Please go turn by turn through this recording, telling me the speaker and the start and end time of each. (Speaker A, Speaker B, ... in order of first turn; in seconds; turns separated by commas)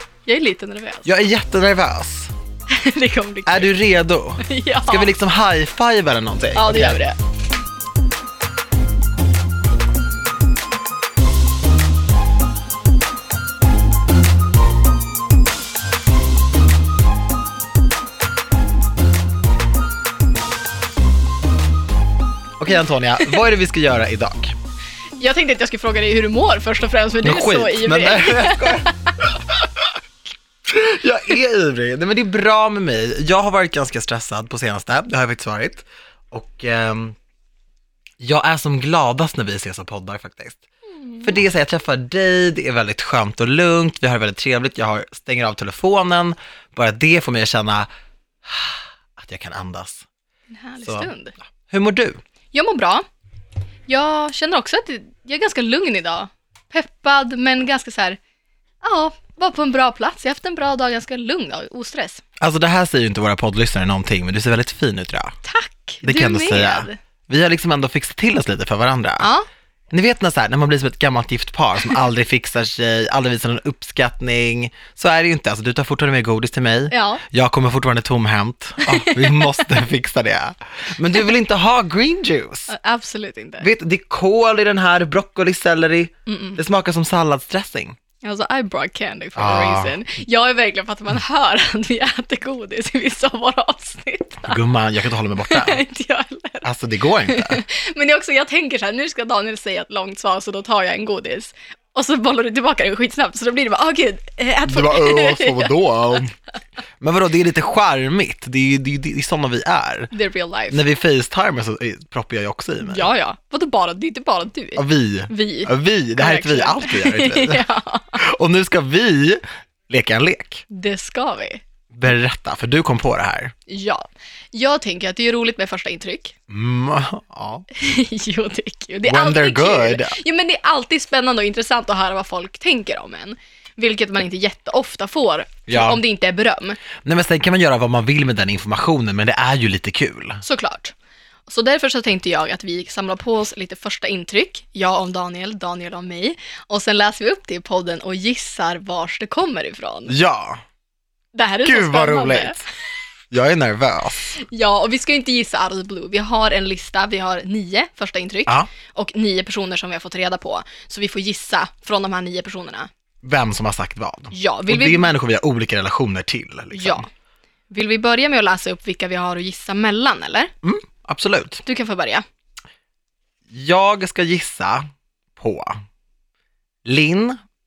Speaker A: 0.2-1.1, Speaker B: 1.0-2.3, Speaker A: 2.7-3.8, Speaker B: 3.5-7.0, Speaker A: 4.4-5.1, Speaker A: 6.5-7.2, Speaker B: 22.6-24.6, Speaker A: 25.2-29.1, Speaker B: 27.2-29.8, Speaker B: 30.6-37.1, Speaker B: 38.2-40.6, Speaker A: 40.9-41.4, Speaker B: 41.2-47.9, Speaker B: 48.4-50.1, Speaker A: 50.5-51.3, Speaker B: 50.8-51.1, Speaker B: 51.7-52.2, Speaker A: 52.5-53.0, Speaker A: 53.9-58.2, Speaker A: 58.8-62.2, Speaker B: 62.4-65.3, Speaker A: 65.4-67.0, Speaker B: 66.0-69.3, Speaker A: 69.2-69.5, Speaker B: 69.9-82.7, Speaker A: 76.9-77.2, Speaker A: 78.8-79.8, Speaker A: 82.7-83.7, Speaker B: 83.6-88.0, Speaker A: 86.3-86.6, Speaker A: 88.2-94.6, Speaker B: 89.3-90.0, Speaker B: 94.4-95.8, Speaker A: 95.4-96.7, Speaker B: 96.6-97.6, Speaker A: 97.2-106.2, Speaker B: 104.7-106.3, Speaker B: 107.0-110.1, Speaker A: 110.1-110.8, Speaker B: 110.7-113.1, Speaker A: 112.8-118.2, Speaker B: 114.8-117.6, Speaker B: 118.2-120.6, Speaker A: 120.7-121.6, Speaker B: 121.9-123.5, Speaker A: 123.7-126.3, Speaker B: 126.5-127.7, Speaker A: 127.7-136.8, Speaker B: 129.1-130.2, Speaker B: 135.7-136.0, Speaker B: 137.0-140.4, Speaker A: 140.4-140.9, Speaker A: 141.5-150.1, Speaker B: 150.1-150.6, Speaker A: 151.3-152.6, Speaker B: 151.6-152.6, Speaker B: 153.3-154.4, Speaker A: 154.3-162.9, Speaker B: 163.2-167.1, Speaker A: 164.3-165.1, Speaker A: 166.7-167.1, Speaker A: 167.7-170.5, Speaker B: 170.6-171.6, Speaker A: 171.7-172.2, Speaker B: 173.5-175.8, Speaker B: 176.8-177.4